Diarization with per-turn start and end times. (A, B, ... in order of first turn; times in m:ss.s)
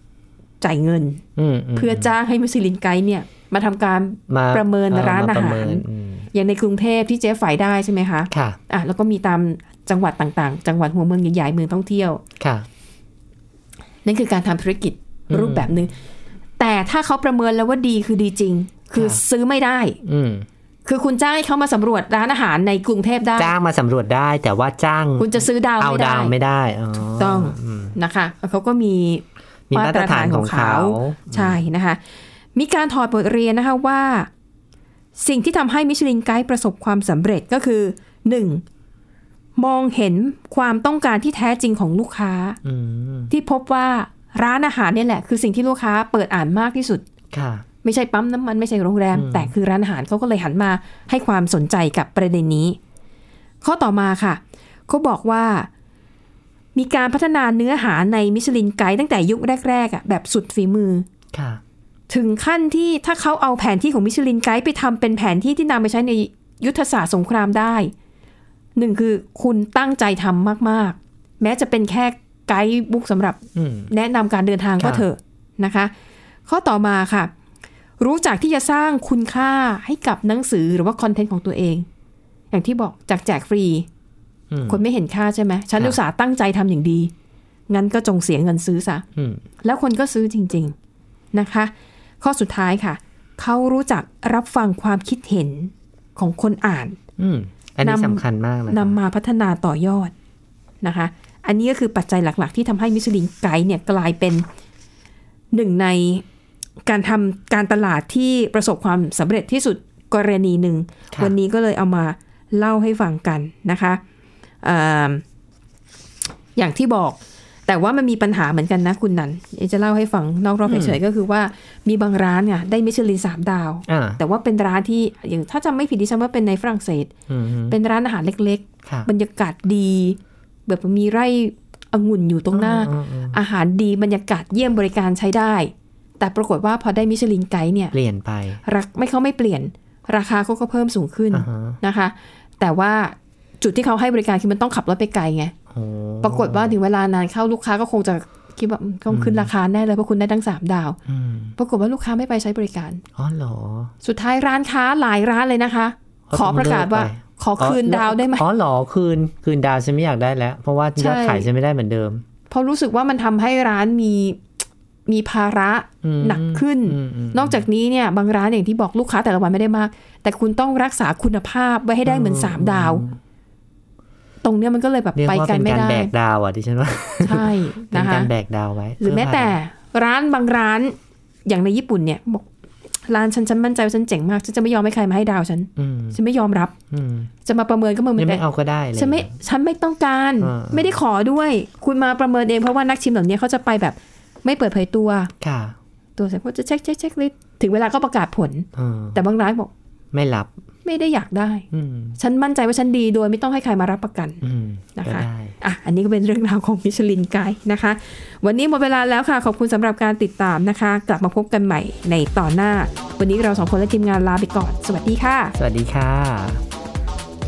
0:00.6-0:01.2 A
0:01.4-0:02.1 B
0:01.8-0:12.2 A
0:04.3-0:06.3 B
0:08.3-0:08.6 B
0:12.4-0:12.6 B
0:14.0-0:16.0 A
0:15.3-0:15.7 B
0:16.6-0:20.0 A
0:18.9-0:19.2 B
0:20.0-0:20.5 B
0:20.8-0:23.5 A
0:23.4-0:28.0 B
0:25.2-0:26.3 A
0:27.0-0:32.0 A
0:29.7-0:31.6 B
0:32.6-0:34.3 A
0:35.2-0:38.6 A
0:39.6-0:42.6 A
0:42.6-0:43.3 B
0:43.3-0:47.0 A
0:47.3-0:47.6 B
0:47.8-0:52.8 A
0:49.1-0:49.5 B
0:53.6-0:55.7 A
0:56.8-1:01.1 A
1:01.3-1:01.6 B
1:02.1-1:07.9 A
1:08.8-1:15.9 A
1:13.6-1:13.9 B
1:14.8-1:15.1 B
1:16.5-1:17.3 A
1:18.0-1:21.9 A
1:22.5-1:23.9 A
1:24.5-1:24.8 B
1:24.7-1:27.1 A
1:27.7-1:29.0 A
1:29.2-1:29.4 B
1:29.6-1:30.7 A
1:31.3-1:37.0 A
1:37.2-1:39.0 B
1:37.8-1:40.1 A
1:40.8-1:44.5 A
1:45.5-1:46.2 A
1:46.9-1:54.0 A
1:54.6-1:55.2 A
1:56.6-2:07.1 A
2:00.6-2:01.0 B
2:03.9-2:04.2 B
2:07.3-2:07.8 B
2:07.7-2:17.9 A
2:08.8-2:09.1 B
2:12.5-2:13.4 B
2:17.9-2:18.6 B
2:18.6-2:25.5 A
2:21.3-2:21.8 B
2:25.7-2:26.8 B
2:26.2-2:31.0 A
2:29.1-2:29.5 B
2:31.1-2:31.6 B
2:31.6-2:33.0 A
2:33.2-2:33.9 B
2:34.0-2:38.4 A
2:36.3-2:42.2 B
2:41.0-2:41.5 A
2:42.5-2:44.4 A
2:45.1-2:53.0 A
2:46.0-2:47.6 B
2:52.0-2:53.2 B
2:54.4-2:56.1 A
2:55.1-2:59.6 B
2:57.2-2:58.3 A
2:59.0-3:02.4 A
3:03.1-3:06.7 A
3:05.8-3:06.2 B
3:06.9-3:07.3 B
3:07.4-3:08.4 A
3:08.2-3:09.3 B
3:09.0-3:15.3 A
3:10.4-3:11.0 B
3:15.4-3:15.8 B
3:16.2-3:19.7 A
3:18.8-3:19.2 B
3:20.1-3:20.5 B
3:20.8-3:21.6 A
3:21.7-3:22.2 B
3:22.2-3:24.4 A
3:24.4-3:25.6 B
3:25.0-3:35.5 A
3:35.6-3:36.6 B